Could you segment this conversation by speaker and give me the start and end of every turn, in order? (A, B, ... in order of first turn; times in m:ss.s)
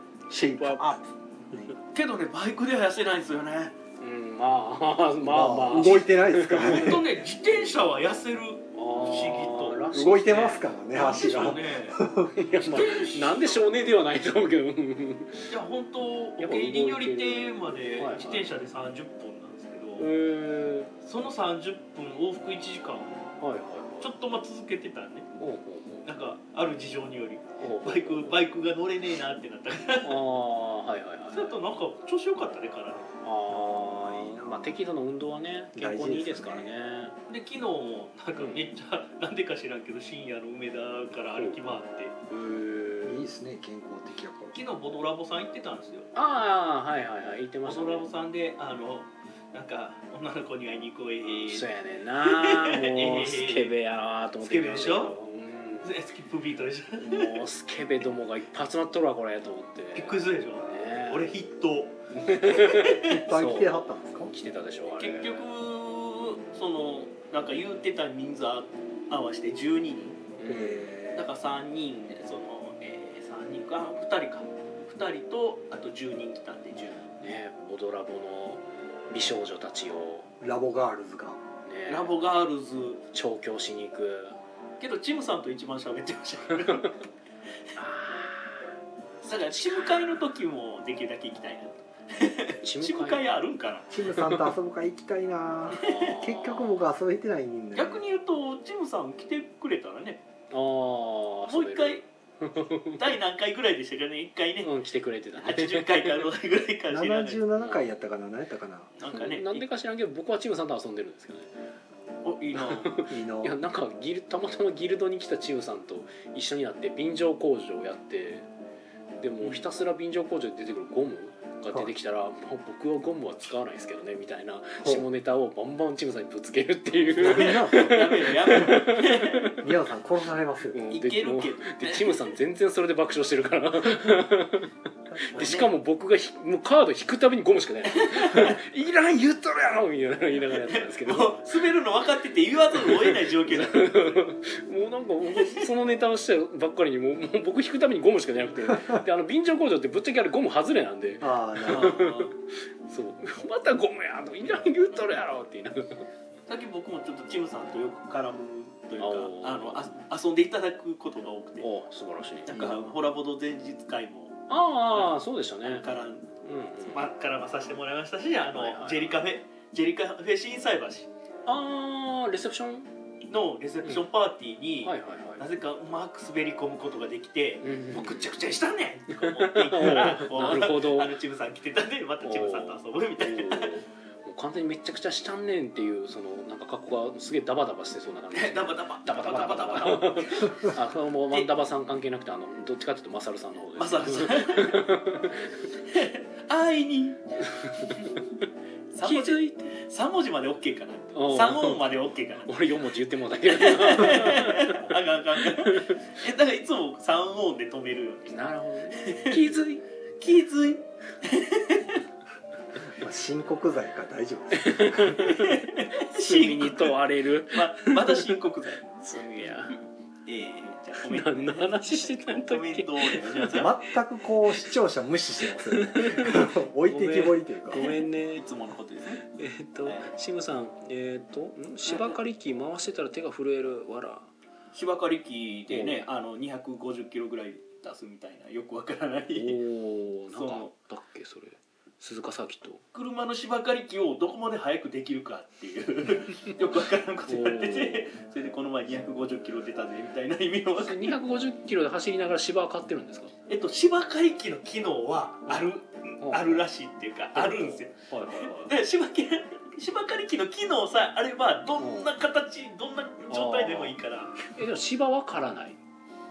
0:00.3-0:01.7 A
0:00.5-0:01.0 B
0:01.9-0:03.8 C
0:04.0-0:07.0 B
0:05.2-0:07.0 A
0:06.5-0:09.9 C
0:08.7-0:10.7 B
0:09.9-0:12.3 A
0:10.9-0:12.0 C
0:12.3-0:15.5 B
0:12.6-0:13.6 C
0:15.5-0:20.1 C
0:16.4-0:18.5 B
0:20.0-0:20.9 B
0:21.0-0:23.3 C
0:23.4-0:24.1 B
0:24.0-0:25.3 C
0:25.4-0:26.1 B
0:26.0-0:30.2 C
0:27.6-0:28.4 B
0:30.0-0:31.6 B
0:31.3-0:33.1 C
0:33.2-0:37.2 B
0:33.5-0:34.8 A
0:35.7-0:36.7 A
0:37.3-0:42.1 C
0:38.4-0:38.6 B
0:41.4-0:41.6 B
0:42.3-0:43.2 B
0:43.0-0:44.6 A
0:44.5-0:46.1 C
0:46.1-0:48.1 B
0:47.6-0:51.7 C
0:51.5-0:55.9 B
0:52.2-0:53.7 C
0:54.4-0:55.1 C
0:55.8-0:57.4 C
0:57.0-1:01.3 B
0:59.9-1:03.2 C
1:02.1-1:05.4 B
1:03.0-1:04.3 A
1:05.0-1:10.2 C
1:10.4-1:11.0 B
1:10.4-1:11.3 A
1:11.1-1:17.1 C
1:17.2-1:20.3 B
1:20.4-1:21.4 A
1:21.6-1:22.1 B
1:21.9-1:23.0 C
1:23.1-1:24.4 B
1:24.8-1:27.0 C
1:27.8-1:28.7 B
1:29.2-1:33.9 C
1:29.5-1:30.0 B
1:32.6-1:33.2 B
1:33.9-1:38.0 A
1:35.7-1:36.8 B
1:35.8-1:36.1 C
1:37.7-1:40.2 C
1:40.5-1:43.1 B
1:41.5-1:42.0 C
1:43.0-1:44.7 C
1:44.6-1:46.3 B
1:45.4-1:47.4 C
1:46.9-1:48.9 A
1:47.6-1:47.9 B
1:49.0-1:49.6 C
1:49.1-1:51.5 B
1:52.2-1:53.0 C
1:52.5-1:58.5 B
1:53.1-1:53.6 A
1:59.2-2:09.6 B
2:07.1-2:08.8 A
2:07.2-2:09.5 C
2:09.6-2:10.8 A
2:10.7-2:14.7 B
2:10.9-2:12.3 C
2:15.1-2:15.6 A
2:15.3-2:21.4 B
2:15.3-2:15.7 C
2:17.9-2:18.6 C
2:20.5-2:24.2 C
2:22.8-2:36.0 B
2:25.3-2:25.7 C
2:31.2-2:32.0 A
2:31.6-2:32.3 C
2:36.5-2:41.7 C
2:39.0-2:39.9 B
2:41.6-2:42.9 B
2:42.4-2:46.3 C
2:44.5-2:45.9 B
2:46.4-2:47.0 B
2:46.9-2:51.1 C
2:48.5-2:49.2 B
2:51.4-2:52.9 B
2:53.3-3:03.7 C
2:54.8-2:55.5 B
2:57.6-2:58.3 B
2:59.1-3:01.1 B
3:02.2-3:15.7 B
3:08.3-3:10.7 C
3:13.8-3:14.9 C
3:15.9-3:18.1 C
3:17.5-3:18.2 B
3:18.9-3:22.5 C
3:19.0-3:19.8 B
3:21.1-3:21.8 B
3:22.4-3:26.0 B
3:23.5-3:29.6 C
3:28.3-3:29.8 B
3:30.2-3:32.0 C
3:32.8-3:35.3 A
3:34.5-3:38.3 B
3:35.2-3:39.0 C
3:39.0-3:39.8 B
3:40.2-3:43.8 C
3:41.0-3:43.6 B
3:43.5-3:47.8 A
3:45.5-3:48.4 B
3:47.7-3:49.2 C
3:49.2-3:54.3 B
3:49.8-3:50.1 C
3:51.9-3:52.2 C
3:54.7-3:59.6 C
3:55.7-3:56.0 B
3:59.3-4:02.8 B
4:00.3-4:00.7 C
4:02.9-4:11.1 C
4:07.3-4:08.1 B
4:10.8-4:13.3 B
4:13.5-4:24.4 C
4:16.2-4:16.5 B
4:17.3-4:18.7 B
4:21.8-4:22.1 B
4:23.3-4:24.0 B
4:24.5-4:25.8 B